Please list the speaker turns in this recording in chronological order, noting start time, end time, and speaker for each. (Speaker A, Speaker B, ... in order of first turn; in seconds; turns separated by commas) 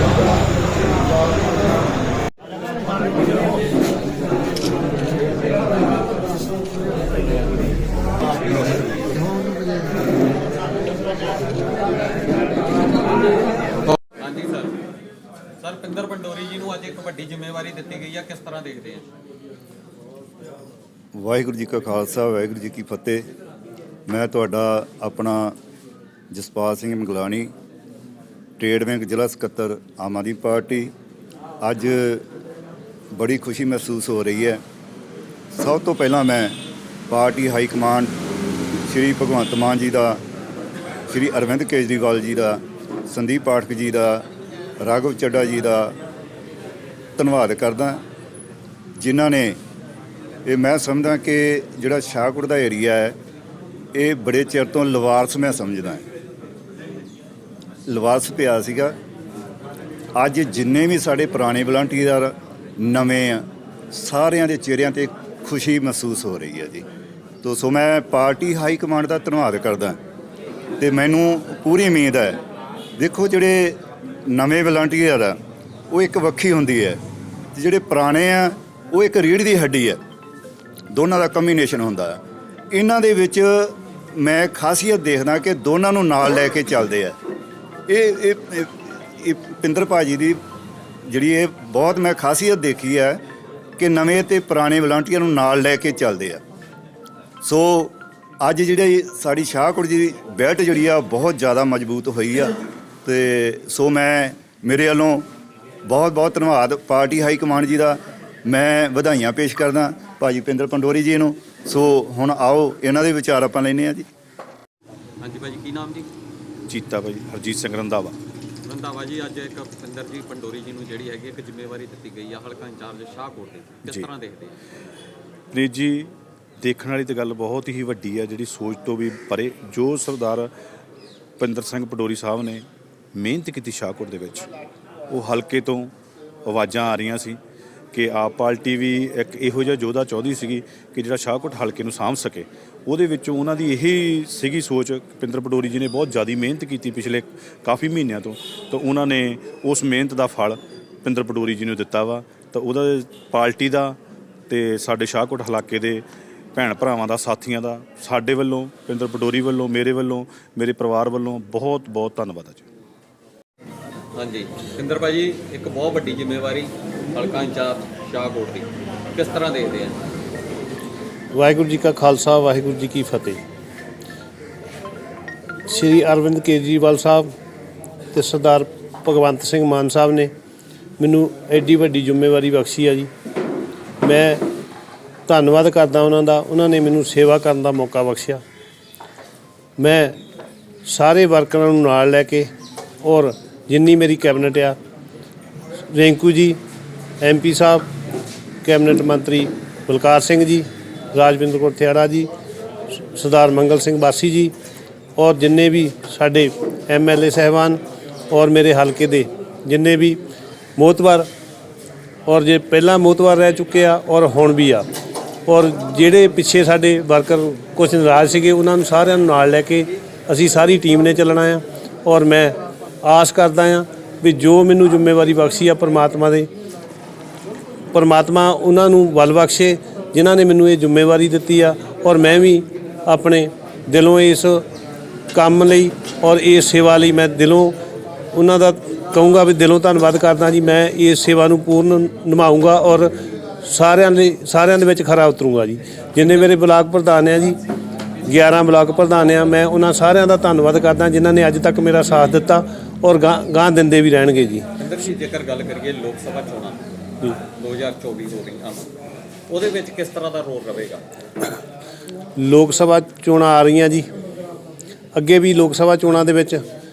Speaker A: 14.2-14.8, Speaker A: 15.6-19.1, Speaker B: 21.1-23.2, Speaker B: 24.1-25.6, Speaker B: 26.3-27.5, Speaker B: 28.6-30.9, Speaker B: 31.6-32.2, Speaker B: 33.1-34.6, Speaker B: 35.5-36.6, Speaker B: 37.1-38.1, Speaker B: 38.9-40.2, Speaker B: 41.1-44.2, Speaker B: 44.8-46.0, Speaker B: 47.2-48.0, Speaker B: 49.0-49.6, Speaker B: 50.5-53.2, Speaker B: 54.0-56.0, Speaker B: 57.9-59.0, Speaker B: 60.2-66.8, Speaker B: 67.4-70.0, Speaker B: 70.8-72.4, Speaker B: 73.0-75.4, Speaker B: 75.9-77.0, Speaker B: 77.5-80.0, Speaker B: 80.9-82.2, Speaker B: 82.7-87.2, Speaker B: 87.9-90.4, Speaker B: 91.1-93.2, Speaker B: 93.8-96.4, Speaker B: 97.4-105.3, Speaker B: 105.9-114.1, Speaker A: 115.2-116.1, Speaker C: 116.7-118.2, Speaker A: 118.7-124.5, Speaker C: 125.5-130.5, Speaker C: 131.4-134.5, Speaker C: 135.1-135.9, Speaker C: 136.4-137.4, Speaker C: 137.9-154.0, Speaker C: 154.5-156.0, Speaker C: 156.6-162.7, Speaker A: 164.2-170.0, Speaker D: 171.3-173.4, Speaker D: 175.7-177.3, Speaker D: 178.1-180.3, Speaker D: 181.0-183.1, Speaker D: 184.0-184.4, Speaker D: 185.3-188.4, Speaker D: 189.8-190.2, Speaker D: 190.9-192.5, Speaker D: 193.0-194.8, Speaker D: 195.9-196.6, Speaker D: 197.2-197.9, Speaker D: 198.6-202.3, Speaker D: 203.1-204.5, Speaker D: 205.2-210.2, Speaker D: 210.8-211.3, Speaker D: 212.3-214.9, Speaker D: 215.5-226.5, Speaker D: 227.9-234.6, Speaker D: 235.3-237.8, Speaker D: 238.3-243.1, Speaker D: 243.7-247.6, Speaker D: 248.3-254.7, Speaker A: 254.8-256.8, Speaker A: 257.4-258.9, Speaker A: 259.5-261.0, Speaker D: 262.4-264.1, Speaker D: 265.1-266.6